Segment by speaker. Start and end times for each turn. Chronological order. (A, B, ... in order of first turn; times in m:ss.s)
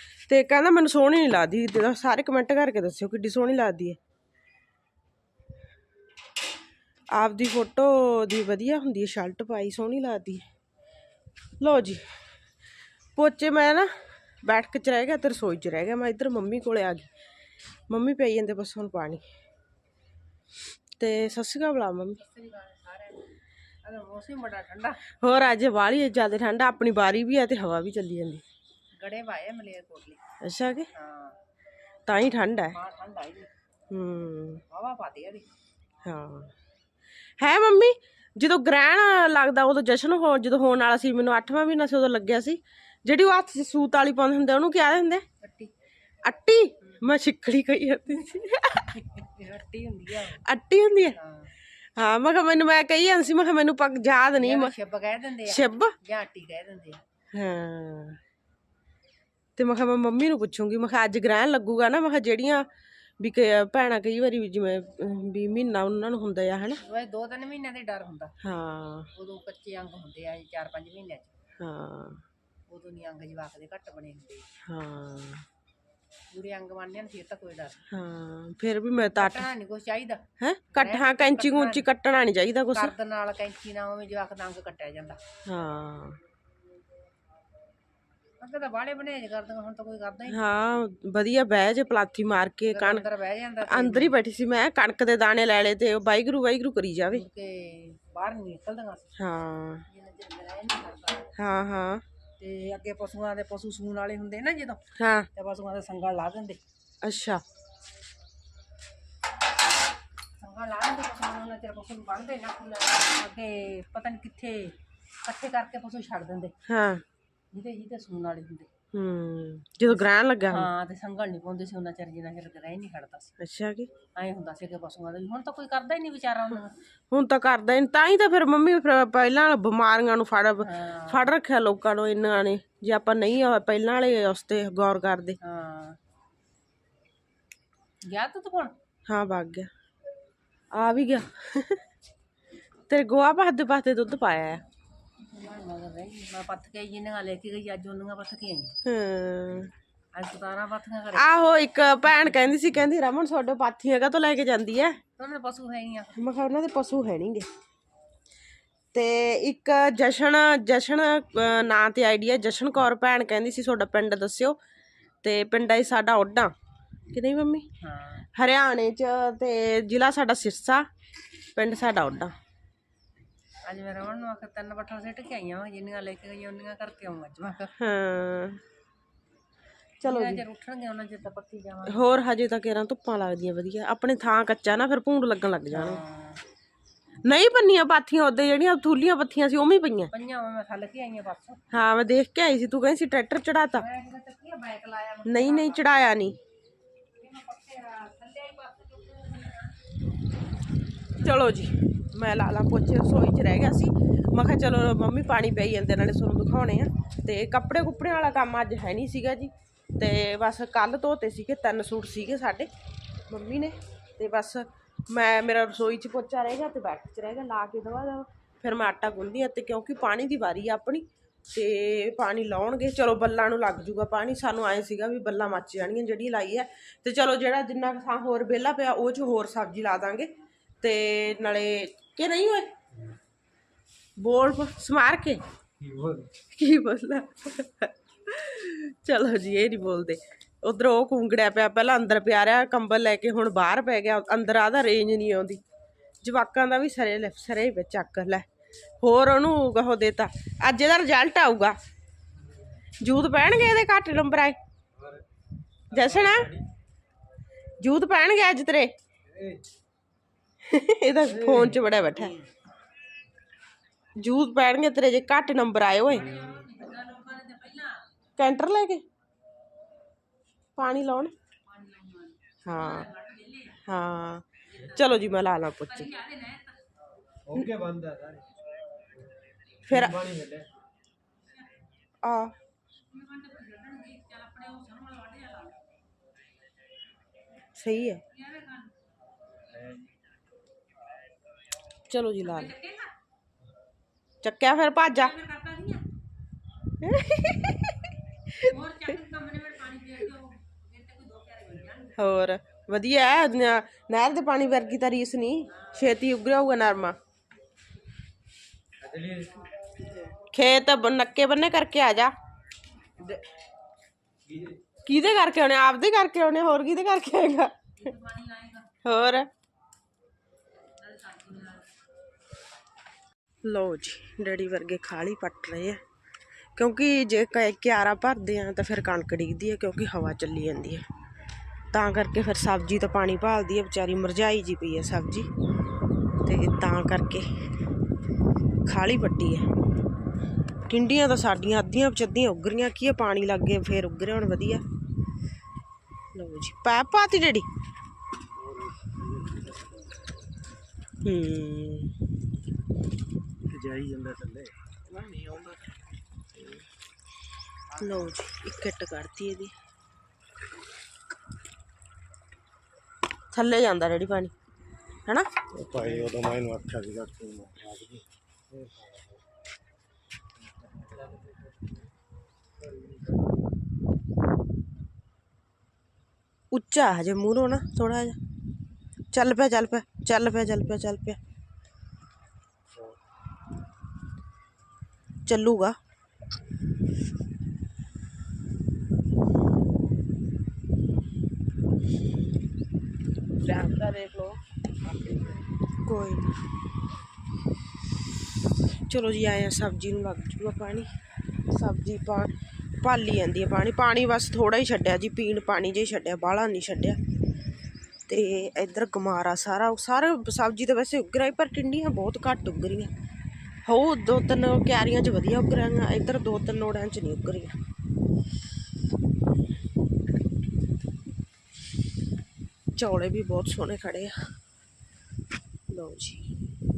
0:00.3-0:04.0 A
0:07.1-0:10.4 A
0:11.6-0:12.1 A
0:13.2-0:13.9 A
0:14.4-0:17.1 A
0:17.9-0:19.2 A
0:21.0-0:22.2 A
0:22.1-0:23.3 B
0:23.8-0:25.0 B
0:25.2-0:28.4 A
0:29.0-0:30.2 B
0:30.4-0:30.9 A
0:30.9-0:31.4 B
0:32.0-0:32.8 A
0:32.7-0:33.5 B
0:33.9-0:34.6 A
0:34.7-0:35.4 B
0:36.0-0:36.5 A
0:37.4-0:45.2 A
0:45.4-0:45.7 B
0:46.2-0:49.0 A
0:48.9-0:50.4 B
0:50.4-0:51.2 A
0:51.2-0:51.5 B
0:52.0-0:54.7 A
0:54.4-0:57.0 B
0:55.4-0:55.9 A
0:57.3-0:58.2 A
0:59.6-1:02.7 A
1:03.2-1:06.8 A
1:06.8-1:08.3 B
1:08.4-1:09.1 A
1:09.1-1:11.3 B
1:11.6-1:12.2 A
1:12.7-1:14.4 B
1:14.6-1:15.4 A
1:16.3-1:17.8 B
1:17.9-1:19.5 A
1:19.2-1:21.8 B
1:20.4-1:22.9 A
1:22.7-1:25.2 B
1:25.4-1:26.2 A
1:28.4-1:30.4 B
1:30.3-1:33.1 A
1:32.7-1:34.1 B
1:33.6-1:37.2 A
1:37.1-1:39.1 B
1:39.2-1:39.8 A
1:39.9-1:41.3 B
1:41.4-1:42.0 A
1:42.4-1:46.6 B
1:45.0-1:45.3 A
1:47.0-1:47.4 A
1:50.4-1:56.5 B
1:56.6-1:57.0 A
1:57.5-1:58.7 B
1:58.9-2:00.7 A
2:00.5-2:03.3 B
2:03.4-2:03.9 A
2:04.1-2:06.7 B
2:07.1-2:15.4 A
2:10.6-2:11.2 B
2:15.4-2:16.0 B
2:18.0-2:18.7 B
2:19.1-2:19.7 A
2:20.7-2:21.8 A
2:22.9-2:24.6 A
2:25.2-2:28.7 B
2:28.8-2:29.7 A
2:30.1-2:31.3 B
2:31.1-2:35.0 A
2:35.2-2:36.4 B
2:36.2-2:37.5 A
2:38.9-2:44.6 A
2:45.2-2:46.5 A
2:47.1-2:47.7 A
2:47.8-2:48.3 B
2:48.3-2:50.9 A
2:51.6-2:52.3 A
2:53.6-2:57.7 B
2:57.8-2:58.6 A
3:00.0-3:02.0 B
3:00.0-3:00.4 A
3:01.8-3:06.0 A
3:05.7-3:06.4 B
3:07.2-3:10.1 A
3:10.1-3:11.6 B
3:11.7-3:13.8 A
3:13.8-3:16.0 B
3:15.2-3:16.4 A
3:17.2-3:19.7 B
3:21.2-3:32.7 A
3:33.3-3:52.7 A
3:54.2-3:55.4 A
3:55.8-3:56.3 C
3:56.5-4:05.6 A
4:06.2-4:08.4 A
4:09.0-4:11.8 A
4:13.0-4:14.6 A
4:15.0-4:15.2 C
4:15.9-4:16.6 C
4:15.9-4:16.5 A
4:17.8-4:18.9 A
4:19.3-4:19.6 C
4:20.6-4:22.3 A
4:21.3-4:21.9 C
4:24.2-4:26.4 A
4:26.1-4:28.0 B
4:28.4-4:29.0 A
4:30.8-4:31.3 A
4:31.6-4:33.8 B
4:32.6-4:33.1 A
4:33.8-4:36.1 A
4:34.7-4:35.1 B
4:35.9-4:36.8 B
4:37.5-4:38.4 C
4:39.8-4:40.7 C
4:39.9-4:40.2 A
4:42.2-4:42.5 A
4:43.1-4:45.8 B
4:47.7-4:48.2 A
4:48.3-4:48.9 B
4:52.1-4:52.7 A
4:52.4-4:53.1 B
4:54.4-4:55.3 A
4:55.1-4:56.1 B
4:57.0-4:58.7 A
4:58.6-5:02.2 B
5:02.2-5:07.2 A
5:05.8-5:06.0 B
5:09.0-5:09.6 C
5:10.5-5:12.3 A
5:14.5-5:14.7 C
5:15.0-5:17.8 A
5:18.0-5:19.0 B
5:19.0-5:19.5 A
5:21.0-5:21.9 B
5:23.6-5:26.0 A
5:26.8-5:31.0 A
5:31.9-5:35.5 A
5:36.4-5:37.5 A
5:38.8-5:39.7 A
5:40.9-5:44.8 A
5:46.3-5:47.7 A
5:48.6-5:50.0 C
5:51.2-5:52.1 A
5:53.7-5:55.8 C
5:58.0-5:59.7 A
6:03.5-6:04.5 A
6:05.7-6:09.2 C
6:10.8-6:11.6 C
6:12.8-6:13.3 C
6:16.7-6:18.4 A
6:19.3-6:21.4 A
6:25.4-6:26.0 A
6:33.6-6:34.6 A
6:35.2-6:35.4 C
6:36.0-6:36.5 A
6:39.1-6:41.1 A
6:41.7-6:47.2 A
6:48.3-6:53.1 A
6:53.8-6:57.8 A
7:03.0-7:04.3 A
7:05.9-7:06.5 A